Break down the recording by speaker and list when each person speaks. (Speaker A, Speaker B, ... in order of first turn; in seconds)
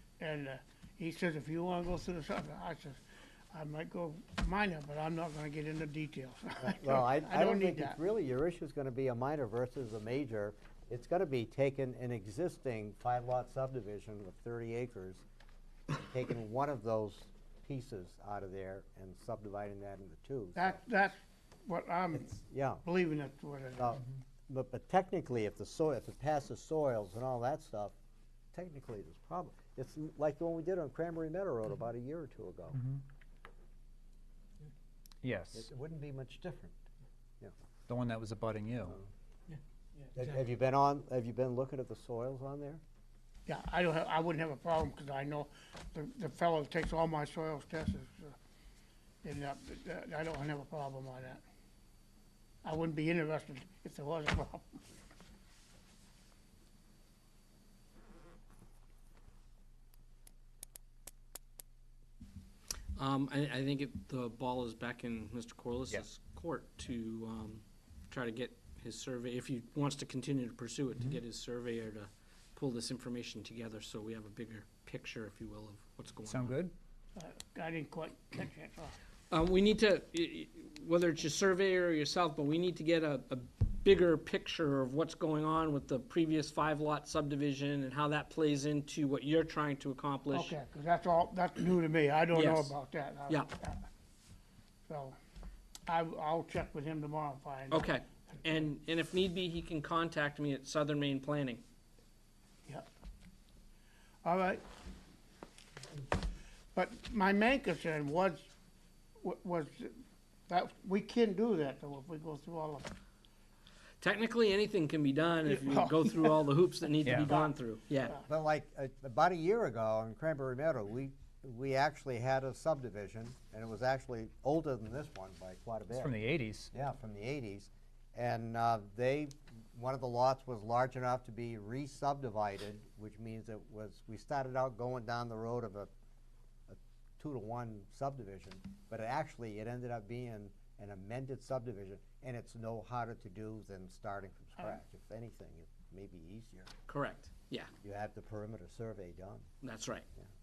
Speaker A: 0.2-3.0, 3.5-8.0, 20.6-24.0, 43.5-48.4, 49.2-51.4, 52.6-54.8, 77.2-78.9, 90.3-93.8, 94.9-95.2, 95.9-97.9, 104.2-104.6, 106.7-108.5, 109.2-112.9, 115.5-116.3, 117.0-117.5
Speaker B: 6.6-15.2, 15.9-20.8, 22.1-22.8, 23.8-27.9, 28.5-32.8, 35.5-36.8, 40.1-42.8, 118.2-126.1, 126.7-135.9, 136.7-146.7, 147.8-149.5
Speaker C: 32.7-33.0, 35.2-35.7, 37.9-39.0, 76.2-76.7, 117.0-117.3, 125.9-126.7
Speaker D: 63.0-76.5, 79.3-90.5, 92.3-92.7, 97.7-101.6, 114.0-118.2, 146.9-147.7, 149.6-150.1